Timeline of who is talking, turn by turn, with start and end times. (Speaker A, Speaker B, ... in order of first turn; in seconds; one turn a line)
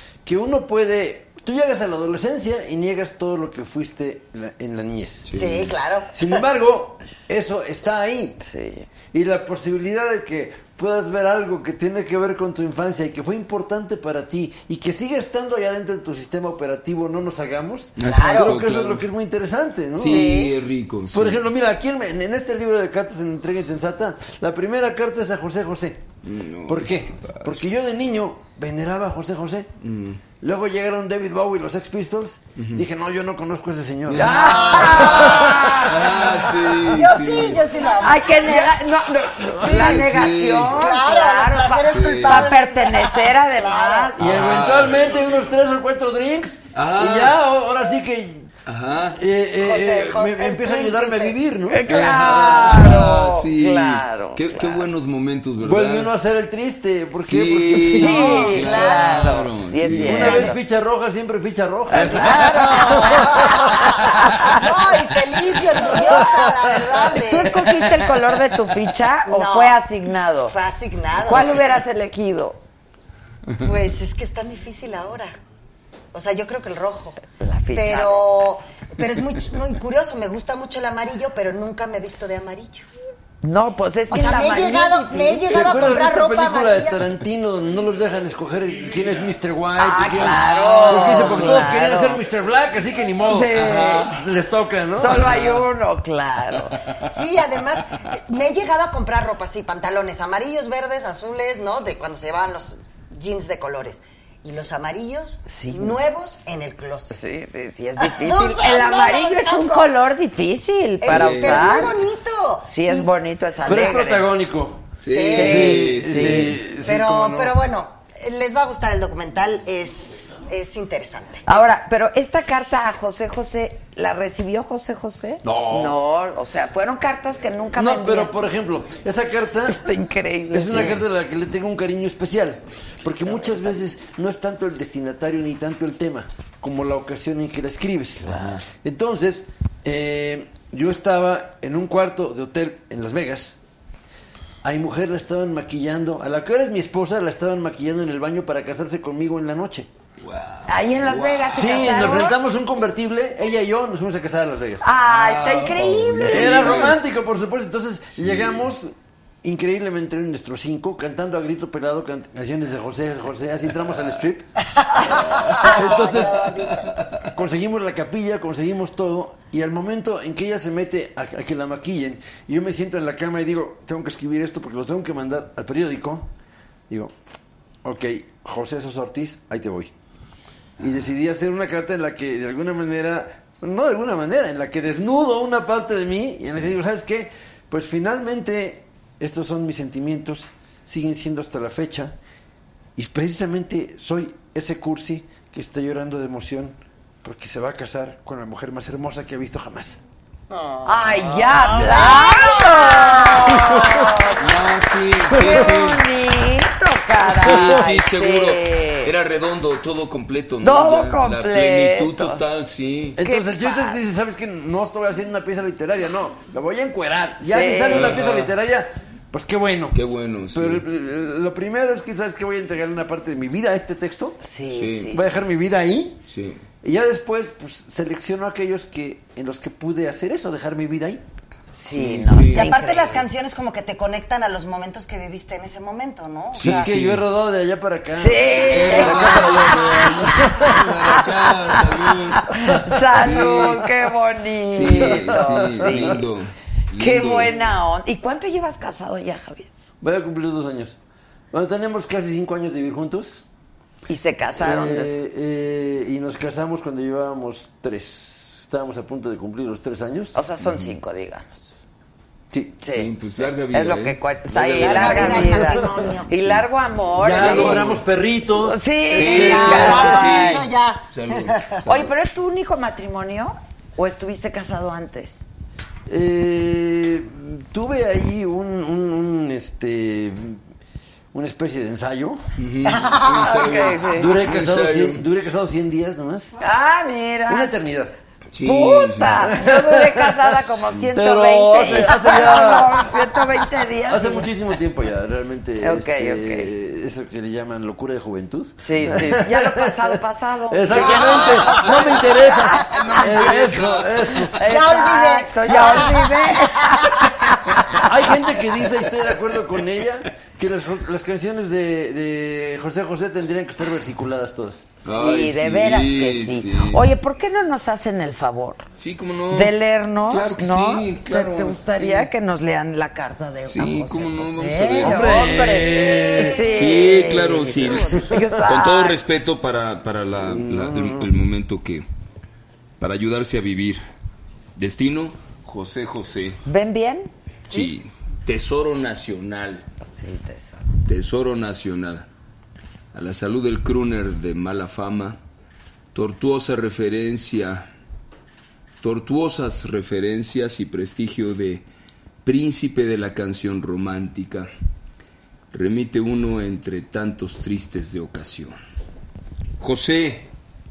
Speaker A: 0.3-5.3
Speaker B: 5.3-5.7
Speaker C: 5.3-6.4
Speaker A: 6.1-8.4
Speaker D: 8.4-8.9
Speaker A: 9.1-20.2
Speaker B: 18.0-19.1
Speaker C: 18.0-18.6
Speaker B: 19.9-21.4
Speaker C: 20.0-20.6
Speaker A: 21.1-26.1
Speaker B: 26.2-27.6
Speaker A: 26.7-29.7
Speaker B: 29.8-30.2
Speaker A: 30.3-35.7
Speaker B: 32.5-32.9
Speaker B: 34.1-37.6
Speaker D: 34.1-36.4
Speaker C: 36.2-38.8
Speaker D: 38.0-44.6
Speaker C: 39.5-40.1
Speaker B: 39.6-40.8
Speaker C: 40.6-44.5
Speaker B: 41.9-42.5
Speaker A: 44.2-48.5
Speaker B: 44.2-45.3
Speaker B: 46.7-47.4
Speaker B: 48.6-49.2
Speaker A: 49.1-52.7
Speaker C: 49.6-51.4
Speaker D: 51.7-54.9
Speaker B: 51.8-56.1
Speaker A: 55.6-58.4
Speaker B: 57.2-60.4
Speaker D: 58.0-60.6
Speaker C: 58.0-59.4
Speaker A: 59.9-63.5
Speaker C: 60.1-60.5
Speaker D: 61.9-64.6
Speaker C: 61.9-67.7
Speaker A: 66.1-68.1
Speaker D: 67.2-70.5
Speaker C: 69.2-69.8
Speaker C: 70.4-71.7
Speaker D: 71.2-72.6
Speaker C: 73.6-75.3
Speaker C: 76.1-77.2
Speaker D: 77.4-78.2
Speaker C: 77.7-82.9
Speaker D: 83.4-85.9
Speaker C: 84.1-87.1
Speaker A: 85.5-95.6
Speaker D: 89.8-92.2
Speaker C: 90.0-90.3
Speaker C: 90.8-91.7
Speaker B: 91.2-91.4
Speaker D: 93.3-94.1
Speaker B: 93.7-94.1
Speaker D: 95.0-96.8
Speaker B: 95.1-95.6
Speaker C: 97.0-107.2
Speaker D: 105.5-106.0
Speaker D: 107.1-111.9
Speaker C: 108.0-109.9
Speaker C: 111.0-114.1
Speaker B: 111.1-111.8
Speaker D: 112.7-114.3
Speaker A: 113.6-117.6
Speaker B: 115.0-116.5
Speaker C: 115.0-115.8
Speaker D: 115.3-116.5
Speaker C: 116.8-121.8
Speaker D: 121.5-128.4
Speaker A: 125.4-126.0
Speaker A: 127.7-129.8
Speaker D: 129.7-131.0
Speaker A: 130.5-143.6
Speaker B: 138.2-138.6
Speaker D: 138.3-138.6
Speaker A: 144.6-149.9
Speaker B: 150.2-152.2
Speaker D: 150.7-152.4
Speaker A: 151.5-154.9
Speaker D: 154.8-157.0
Speaker B: 155.0-157.0
Speaker A: 156.2-164.5
Speaker B: 158.2-158.7
Speaker C: 165.1-166.7
Speaker B: 165.1-167.3
Speaker A: 165.6-166.4
Speaker A: 167.3-176.3
Speaker A: 176.9-177.2
Speaker A: 177.8-179.9
Speaker A: 180.8-192.1
Speaker A: 192.9-200.0
Speaker C: 200.5-203.8
Speaker D: 200.8-204.4
Speaker A: 203.7-204.1
Speaker B: 204.4-206.0
Speaker D: 205.4-209.1
Speaker A: 207.2-207.9
Speaker B: 207.3-213.2
Speaker D: 210.6-212.4
Speaker A: 213.2-220.0
Speaker D: 213.2-214.0
Speaker D: 217.5-218.2
Speaker B: 217.9-218.5
Speaker B: 219.9-220.8
Speaker A: 220.5-224.4
Speaker D: 224.4-225.3
Speaker B: 224.7-225.1
Speaker A: 225.1-226.2
Speaker B: 226.3-226.6
Speaker A: 226.8-231.2
Speaker D: 231.7-233.2
Speaker B: 231.9-232.7
Speaker C: 232.3-236.9
Speaker B: 236.5-237.3
Speaker A: 236.6-241.2
Speaker D: 238.2-241.8
Speaker B: 238.6-243.8
Speaker D: 242.5-246.2
Speaker B: 244.7-247.7
Speaker A: 244.9-246.2
Speaker D: 247.0-249.7
Speaker A: 250.0-250.9
Speaker A: 251.5-253.4
Speaker D: 254.1-255.1
Speaker A: 254.6-260.4
Speaker D: 260.3-261.7
Speaker B: 260.6-261.0
Speaker A: 262.5-262.8
Speaker D: 262.8-263.1
Speaker B: 262.9-265.7
Speaker D: 263.7-268.0
Speaker C: 264.8-266.3
Speaker A: 267.2-270.3
Speaker B: 267.3-268.1
Speaker D: 268.6-270.6
Speaker B: 269.1-272.1
Speaker C: 269.2-271.8
Speaker D: 271.9-275.4
Speaker A: 276.1-280.6
Speaker A: 281.3-282.4
Speaker B: 282.6-285.2
Speaker C: 282.9-283.6
Speaker D: 283.4-284.4
Speaker A: 284.0-286.6
Speaker D: 286.6-287.7
Speaker A: 287.5-288.1
Speaker B: 288.5-289.5
Speaker D: 288.6-294.5
Speaker A: 289.4-304.6
Speaker D: 295.8-296.7
Speaker D: 298.8-304.0
Speaker B: 300.9-304.6
Speaker C: 302.8-303.1
Speaker D: 304.5-308.0
Speaker C: 304.6-307.2
Speaker A: 305.6-306.5
Speaker A: 308.0-314.9
Speaker D: 315.0-318.9
Speaker B: 315.0-317.1
Speaker B: 318.9-319.8
Speaker D: 319.5-329.2
Speaker B: 320.3-322.3
Speaker B: 323.6-325.7
Speaker A: 325.0-326.7
Speaker C: 326.4-327.3
Speaker B: 326.6-332.1
Speaker A: 328.1-328.6
Speaker A: 330.4-331.3
Speaker B: 333.0-334.0
Speaker B: 334.8-336.6
Speaker D: 336.6-337.3
Speaker B: 337.7-339.9
Speaker D: 340.0-340.9
Speaker B: 341.1-342.3
Speaker B: 343.1-345.4
Speaker B: 346.1-347.9
Speaker B: 349.0-351.8
Speaker B: 352.4-354.7
Speaker B: 355.7-358.8
Speaker B: 359.8-360.5